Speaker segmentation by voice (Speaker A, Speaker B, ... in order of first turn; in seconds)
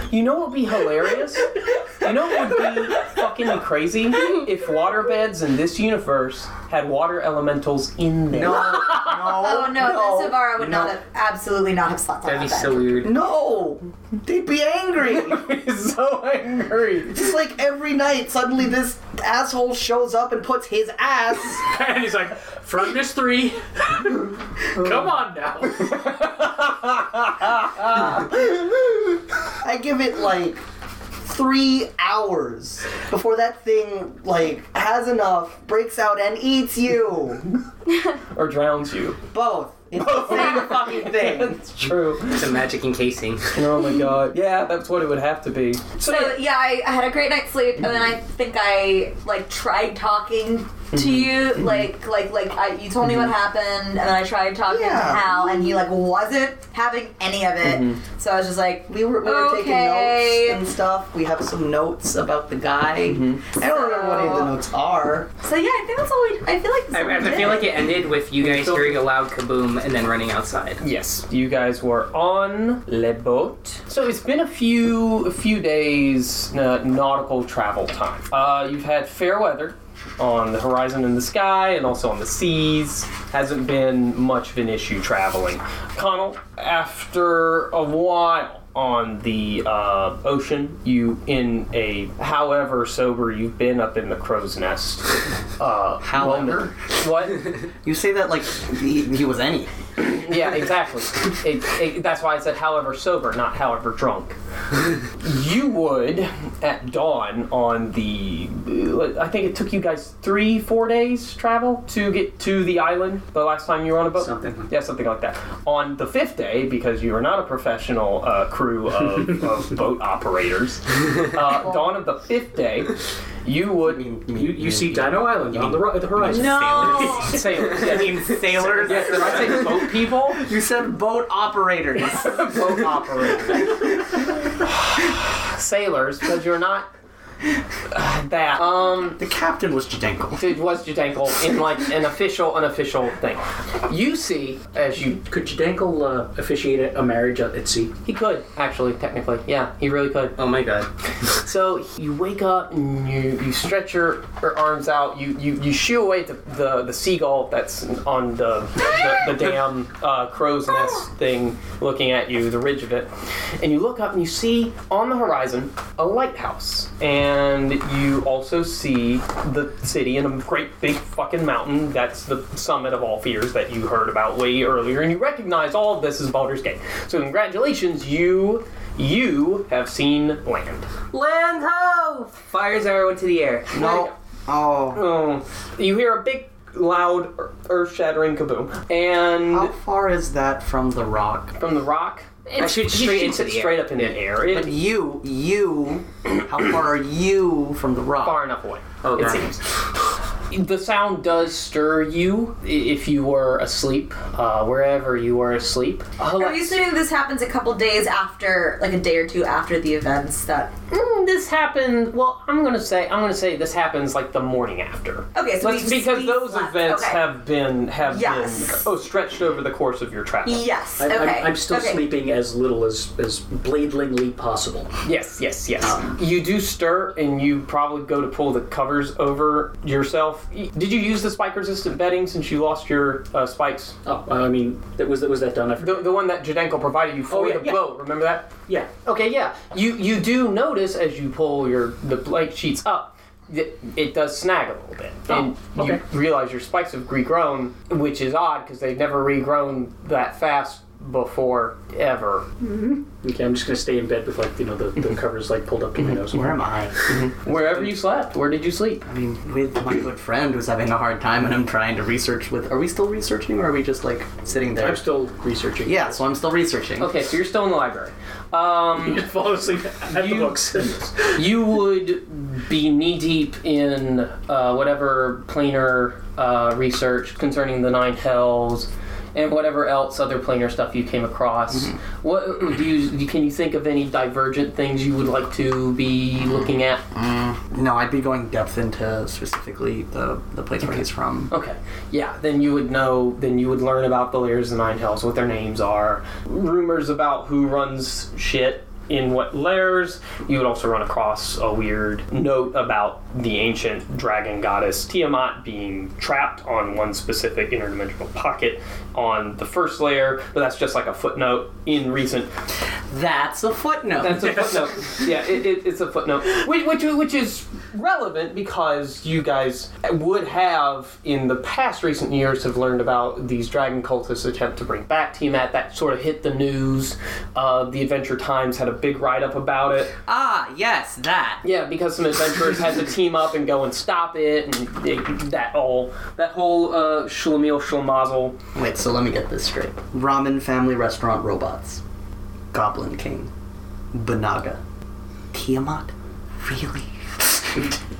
Speaker A: 0.1-9.0, 15.0-17.2, 25.8-28.8, 38.3-39.2, 40.0-42.4, 43.5-46.4, 50.9-51.7, 57.6-58.0, 63.0-63.4, 70.8-97.5, 100.0-104.3, 105.0-124.0, 127.1-130.4, 132.0-133.9, 134.6-136.9, 137.9-139.2, 140.4-145.2, 148.0-150.4, 151.4-180.9, 183.7-184.1, 184.9-189.7, 191.6-194.8, 198.2-199.5, 200.5-206.8, 210.9-220.7, 225.0-233.9, 235.8-238.5, 239.0-252.4, 257.1-259.0, 267.0-269.3, 270.1-287.0, 291.5-312.5, 314.2-330.1, 331.6-338.6
Speaker B: 8.3-10.9, 13.0-15.4, 17.1-21.7, 29.6-30.6, 31.2-37.4, 39.3-41.9, 54.7-55.8, 58.9-65.3, 96.0-96.7, 97.8-99.7, 123.8-133.0, 133.6-133.8, 139.2-140.5, 183.7-185.0, 189.5-191.6, 194.5-198.4, 256.1-257.0, 259.0-265.0, 265.8-267.1, 287.1-291.5, 313.1-314.9, 330.2-331.6, 338.7-342.0, 342.7-343.5, 344.1-344.8, 345.5-347.9
Speaker C: 8.5-13.1, 46.0-60.6, 63.6-64.5, 65.4-67.9, 126.3-127.4, 206.4-210.7, 215.3-217.2, 218.0-218.8, 220.4-222.0
Speaker D: 12.2-13.1, 42.3-43.5, 66.9-70.8, 150.4-150.9, 181.1-183.7, 192.5-194.2, 199.0-199.6
Speaker E: 21.6-26.1, 114.2-114.7, 124.3-127.4, 128.8-129.7, 145.3-147.9, 221.0-224.9, 234.0-236.1, 237.3-237.9, 245.3-246.0, 252.6-256.9, 257.4-257.9, 264.8-266.2, 269.0-271.4